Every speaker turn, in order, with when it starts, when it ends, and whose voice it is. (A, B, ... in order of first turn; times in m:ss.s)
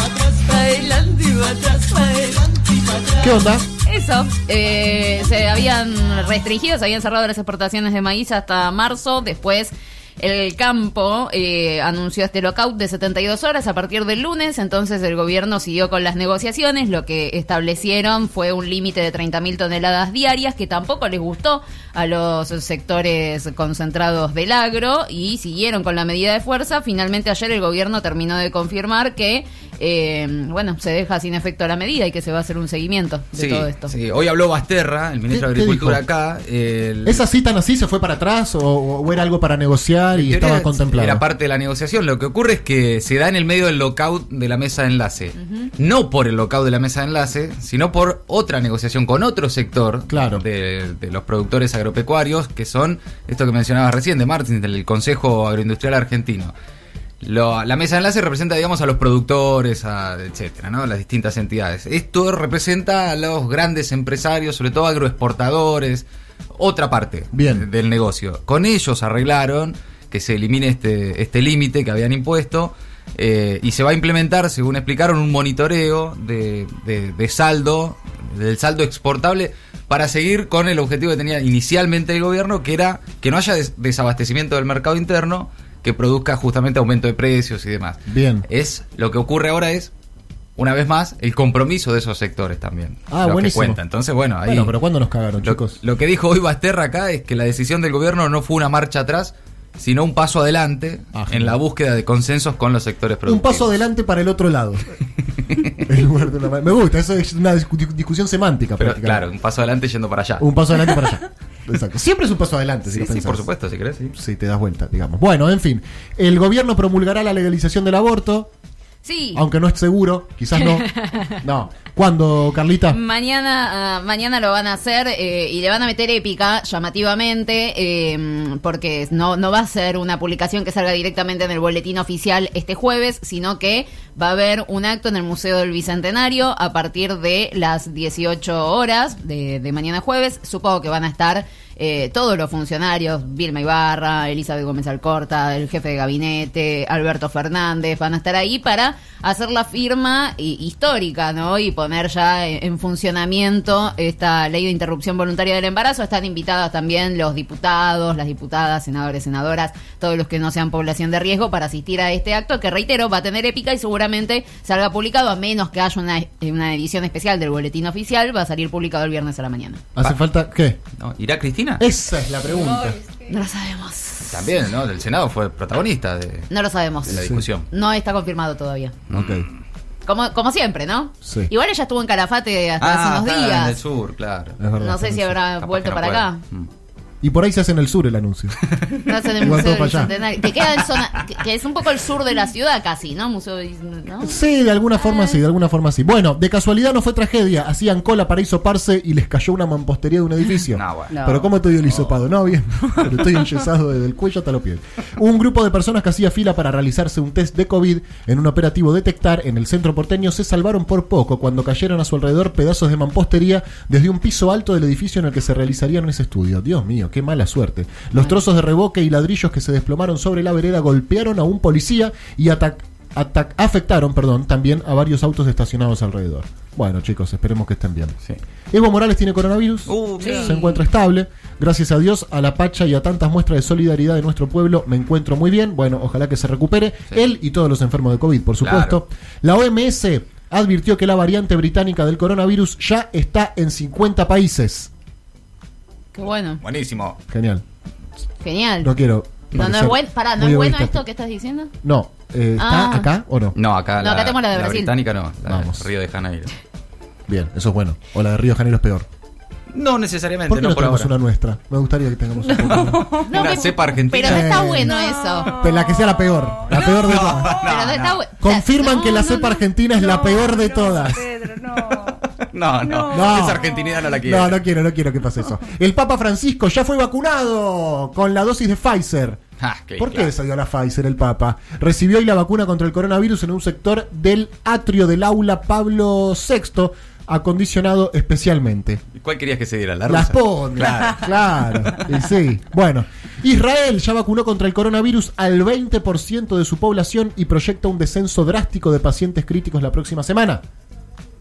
0:00.2-0:03.2 A
0:03.2-0:03.7 B
0:03.8-0:33.9 A
0:33.4-0:37.2 C
0:35.3-0:36.0 B
0:37.0-0:41.2 B
0:40.1-0:56.5 C
0:50.1-0:50.4 B
0:57.2-1:29.9 C
1:07.3-1:07.7 B
1:28.1-1:28.5 B
1:30.6-1:34.8 C
1:33.1-1:33.8 B
1:34.4-1:35.8 B
1:35.4-1:43.7 C
1:41.1-1:41.6 B
1:43.3-1:45.0 B
1:45.5-1:45.8 C
1:45.8-1:49.2 B
1:48.8-1:50.5 C
1:50.4-1:53.4 B
1:52.9-1:54.1 C
1:54.1-1:58.5 B
1:59.0-1:59.4 A
1:59.4-2:03.0 B
2:00.6-2:01.4 A
2:02.9-2:49.8 A
2:50.0-2:50.8 B
2:51.0-2:51.8 C
2:51.8-2:53.0 B
2:53.2-2:54.5 A
2:54.3-2:56.5 C
2:56.5-2:59.0 A
2:57.1-2:57.7 C
2:57.1-2:57.4 B
2:59.1-2:59.6 C
2:59.1-2:59.5 B
3:00.1-3:03.8 A
3:01.2-3:01.5 B
3:02.8-3:04.6 C
3:04.6-3:05.4 B
3:04.8-3:06.4 A
3:05.6-3:06.7 C
3:07.2-3:08.6 B
3:09.0-3:14.4 A
3:09.3-3:10.1 B
3:14.2-3:48.2 B
3:15.0-3:15.4 A
3:20.7-3:21.2 C
3:21.1-3:21.5 D
3:21.9-3:22.1 C
3:48.7-4:04.9 B
3:49.9-3:50.8 C
3:50.2-3:50.6 D
3:58.6-3:59.0 C
4:06.2-4:06.6 A
4:06.6-4:07.2 C
4:07.3-4:07.6 B
4:08.4-4:08.9 A
4:08.8-4:11.0 B
4:09.5-4:11.7 A
4:11.8-4:13.6 B
4:12.6-4:13.1 A
4:13.6-4:16.5 C
4:14.0-4:14.9 A
4:15.5-4:15.8 B
4:17.3-4:19.1 B
4:19.7-4:21.1 C
4:20.5-4:23.2 B
4:22.6-4:24.7 C
4:22.7-4:23.2 D
4:23.2-4:25.6 A
4:24.2-4:27.6 B
4:24.9-4:27.1 D
4:26.7-4:28.2 C
4:27.5-4:29.6 A
4:28.4-4:31.3 B
4:30.0-4:32.2 D
4:32.2-4:34.6 C
4:32.8-4:34.0 D
4:33.1-4:39.4 B
4:39.6-4:40.3 C
4:40.0-4:49.0 B
4:49.1-4:52.2 C
4:50.1-5:00.6 B